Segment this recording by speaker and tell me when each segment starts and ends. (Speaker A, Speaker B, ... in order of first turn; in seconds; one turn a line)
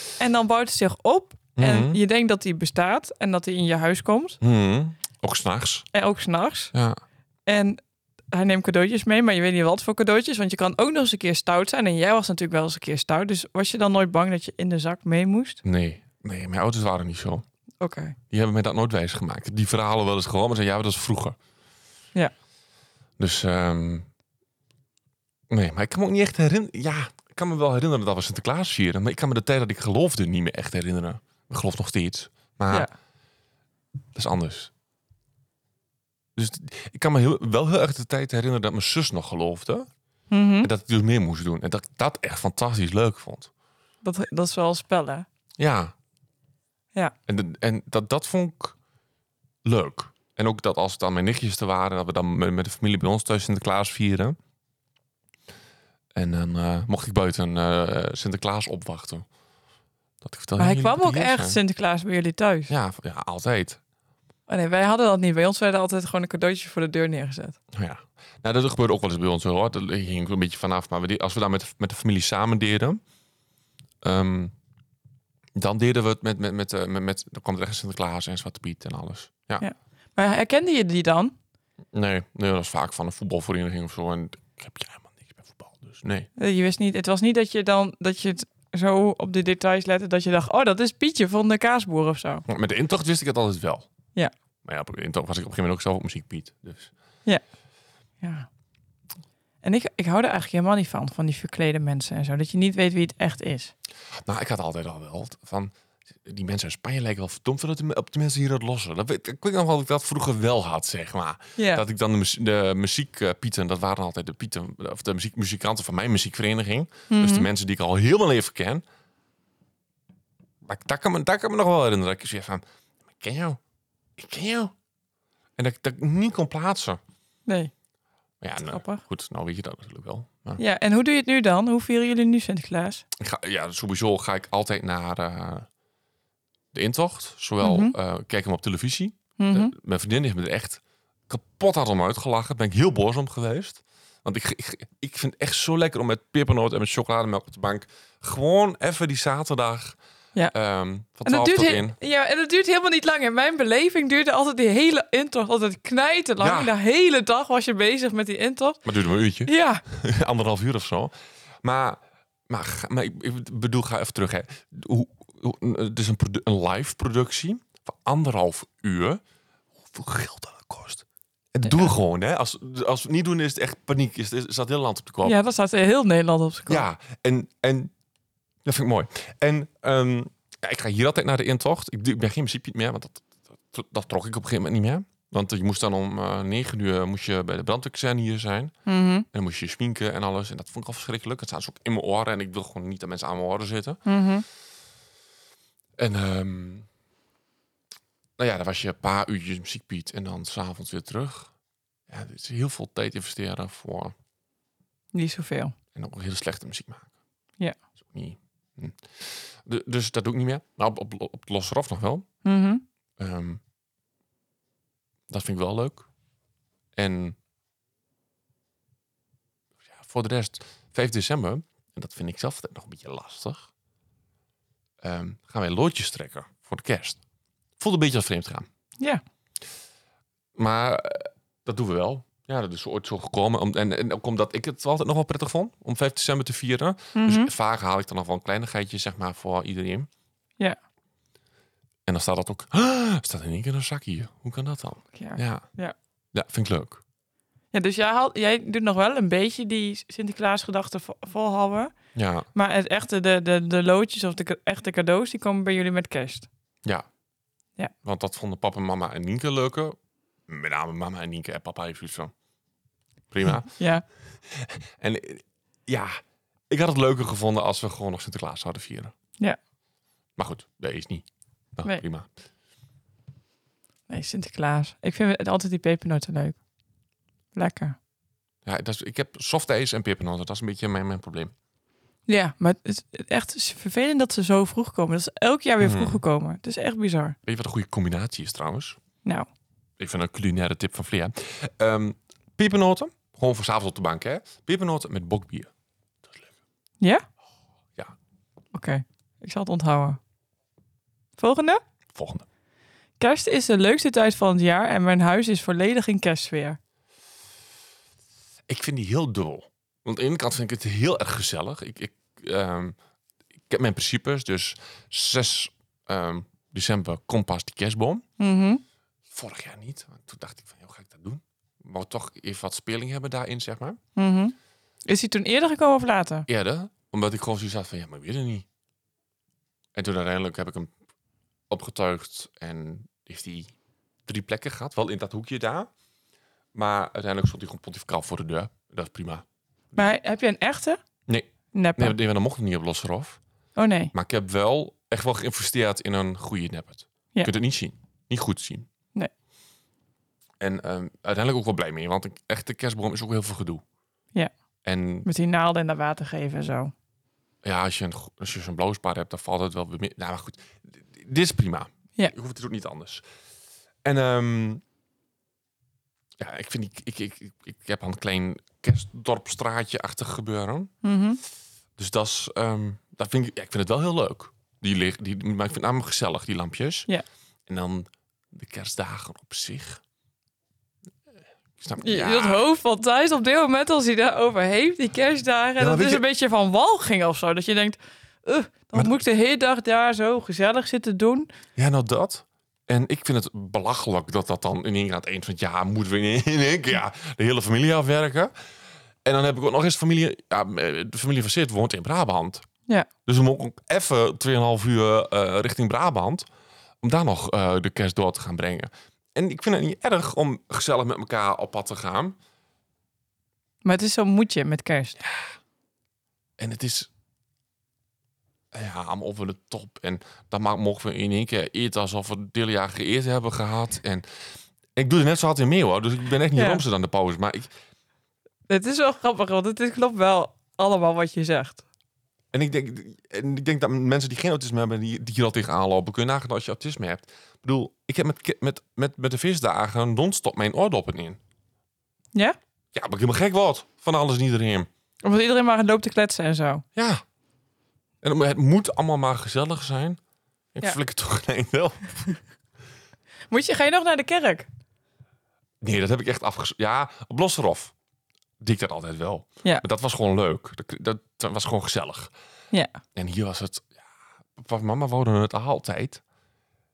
Speaker A: 0.2-4.4
Speaker B: 1.6-2.0
Speaker B: 4.4-5.9
Speaker A: 5.9-6.7
Speaker B: 6.7-7.0
Speaker A: 7.5-7.8
Speaker A: 8.3-15.6
Speaker B: 15.6-17.4
Speaker A: 17.8-18.2
Speaker B: 18.3-21.4
Speaker B: 23.2-24.1
Speaker B: 25.5-32.9
Speaker B: 34.1-34.7
Speaker B: 36.4-39.9
Speaker A: 40.3-40.7
Speaker B: 40.6-43.5
Speaker A: 44.0-45.3
Speaker B: 45.6-45.9
Speaker B: 47.3-48.8
Speaker B: 49.6-54.4
Speaker B: 56.1-59.3
Speaker B: 60.2-61.6
Speaker A: 60.6-62.7
Speaker B: 62.7-63.8
Speaker A: 64.5-67.6
Speaker B: 67.7-73.0
Speaker B: 74.0-74.5
Speaker B: 75.5-79.7
Speaker A: 79.6-81.3
Speaker B: 81.9-86.3
Speaker A: 86.4-92.4
Speaker B: 92.5-93.9
Speaker B: 94.7-96.9
Speaker A: 98.2-98.5
Speaker A: 99.6-103.7
Speaker B: 104.2-118.8
Speaker A: 111.6-111.8
Speaker A: 117.1-117.5
Speaker B: 120.6-123.6
Speaker B: 124.2-124.7
Speaker B: 125.6-127.0
Speaker A: 127.5-127.7
Speaker B: 128.4-130.6
Speaker A: 128.7-129.0
Speaker A: 130.6-133.0
Speaker B: 133.2-135.7
Speaker B: 136.7-150.0
Speaker A: 137.6-137.9
Speaker A: 139.4-139.7
Speaker B: 150.5-152.0
Speaker A: 151.2-158.8
Speaker B: 156.4-156.7
Speaker B: 158.8-169.2
Speaker A: 159.5-159.8
Speaker B: 169.8-175.4
Speaker A: 171.7-171.9
Speaker A: 175.2-176.9
Speaker B: 176.7-177.9
Speaker B: 178.7-188.7
Speaker A: 188.9-189.3
Speaker B: 189.3-194.0
Speaker A: 194.1-194.4
Speaker B: 196.0-196.9
Speaker B: 198.4-201.5
Speaker B: 202.1-204.1
Speaker A: 205.1-205.8
Speaker B: 205.9-207.1
Speaker B: 208.0-212.3
Speaker A: 212.4-212.8
Speaker B: 213.2-213.6
Speaker B: 215.3-216.1
Speaker B: 216.9-217.4
Speaker B: 219.9-223.7
Speaker B: 225.0-227.2
Speaker B: 227.8-228.7
Speaker B: 230.6-240.1
Speaker A: 237.1-237.5
Speaker B: 242.1-245.7
Speaker A: 245.1-245.9
Speaker B: 246.3-247.0
Speaker A: 247.7-251.9
Speaker B: 252.2-252.5
Speaker A: 252.5-256.5
Speaker B: 258.0-260.0
Speaker B: 260.5-262.3
Speaker B: 263.3-263.7
Speaker A: 263.7-264.0
Speaker B: 264.4-269.1
Speaker B: 270.4-272.3
Speaker A: 274.1-276.6
Speaker A: 277.5-278.0
Speaker B: 278.6-281.5
Speaker A: 282.3-287.4
Speaker B: 285.8-286.2
Speaker B: 287.5-289.0
Speaker B: 290.0-295.7
Speaker B: 296.2-296.5
Speaker A: 298.7-300.2
Speaker A: 301.4-301.8
Speaker B: 302.1-302.5
Speaker A: 303.2-306.8
Speaker B: 308.7-313.0
Speaker B: 313.7-318.2
Speaker A: 318.4-318.8
Speaker B: 319.3-324.0
Speaker A: 324.2-324.6
Speaker A: 325.1-326.5
Speaker B: 326.5-328.7
Speaker B: 329.9-330.9
Speaker B: 331.7-333.8
Speaker B: 334.3-335.9
Speaker B: 336.7-339.4
Speaker A: 339.9-341.0
Speaker B: 341.3-343.4
Speaker A: 341.7-342.1
Speaker A: 343.8-344.1
Speaker B: 344.1-348.9
Speaker B: 350.6-353.8
Speaker B: 354.8-355.3
Speaker A: 355.2-356.9
Speaker B: 357.6-363.2
Speaker B: 364.0-364.8
Speaker B: 366.4-370.9
Speaker A: 371.0-371.4
Speaker B: 372.0-377.1
Speaker B: 377.7-380.0
Speaker B: 381.8-382.6
Speaker A: 382.0-391.5
Speaker B: 385.8-386.2
Speaker B: 391.8-398.5
Speaker B: 399.2-402.7
Speaker B: 403.3-406.5
Speaker B: 407.0-412.4
Speaker A: 413.8-415.2
Speaker B: 415.2-415.5
Speaker B: 416.6-417.1
Speaker B: 418.7-424.4
Speaker B: 425.0-427.7
Speaker A: 426.6-426.8
Speaker A: 428.7-431.8
Speaker B: 432.5-441.4
Speaker B: 442.9-444.9
Speaker A: 445.2-446.8
Speaker B: 446.9-447.2
Speaker B: 448.2-450.2
Speaker B: 450.8-452.4
Speaker A: 453.5-454.7
Speaker B: 455.8-457.9
Speaker B: 458.6-462.3
Speaker A: 462.7-463.0
Speaker B: 463.1-464.0
Speaker B: 464.6-466.2